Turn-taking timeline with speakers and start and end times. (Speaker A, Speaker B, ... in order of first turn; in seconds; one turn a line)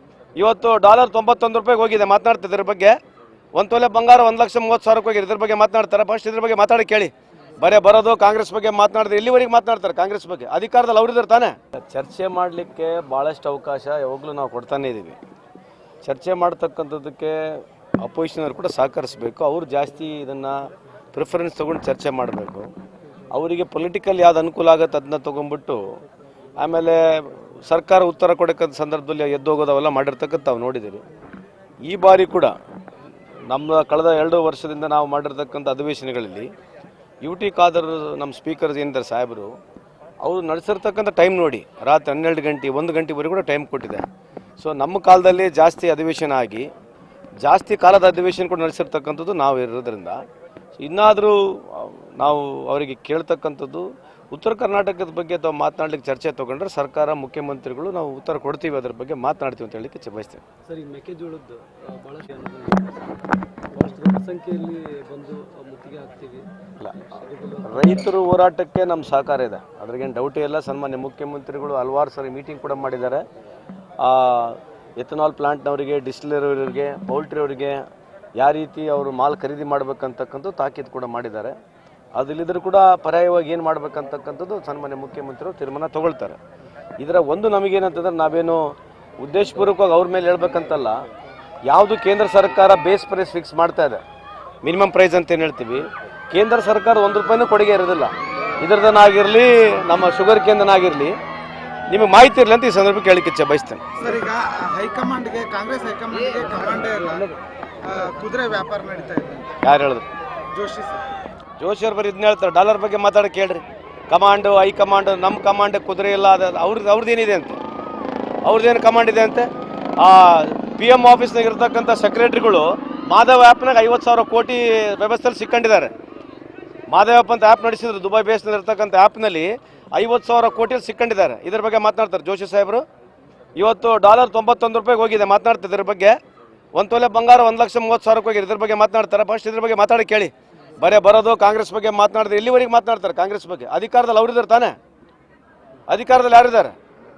Speaker A: 0.3-3.0
Speaker A: 3.5-15.2
Speaker A: 16.0-22.7
Speaker A: 23.3-25.9
Speaker A: 26.6-31.0
Speaker A: 31.8-32.5
Speaker A: 33.5-36.5
Speaker A: 37.2-39.5
Speaker A: 40.2-44.0
Speaker A: 44.6-46.7
Speaker A: 47.4-50.2
Speaker A: 50.8-60.4
Speaker B: 60.6-68.1
Speaker A: 67.6-73.2
Speaker A: 74.0-81.6
Speaker A: 82.2-86.4
Speaker A: 87.0-91.0
Speaker A: 91.7-94.0
Speaker A: 94.6-101.2
Speaker A: 101.9-104.0
Speaker C: 104.0-109.6
Speaker A: 109.6-110.1
Speaker C: 110.5-111.0
Speaker A: 111.6-117.6
Speaker A: 118.4-125.9
Speaker A: 126.9-132.8
Speaker A: 133.6-136.2
Speaker A: 136.7-144.8
Speaker A: 145.9-146.7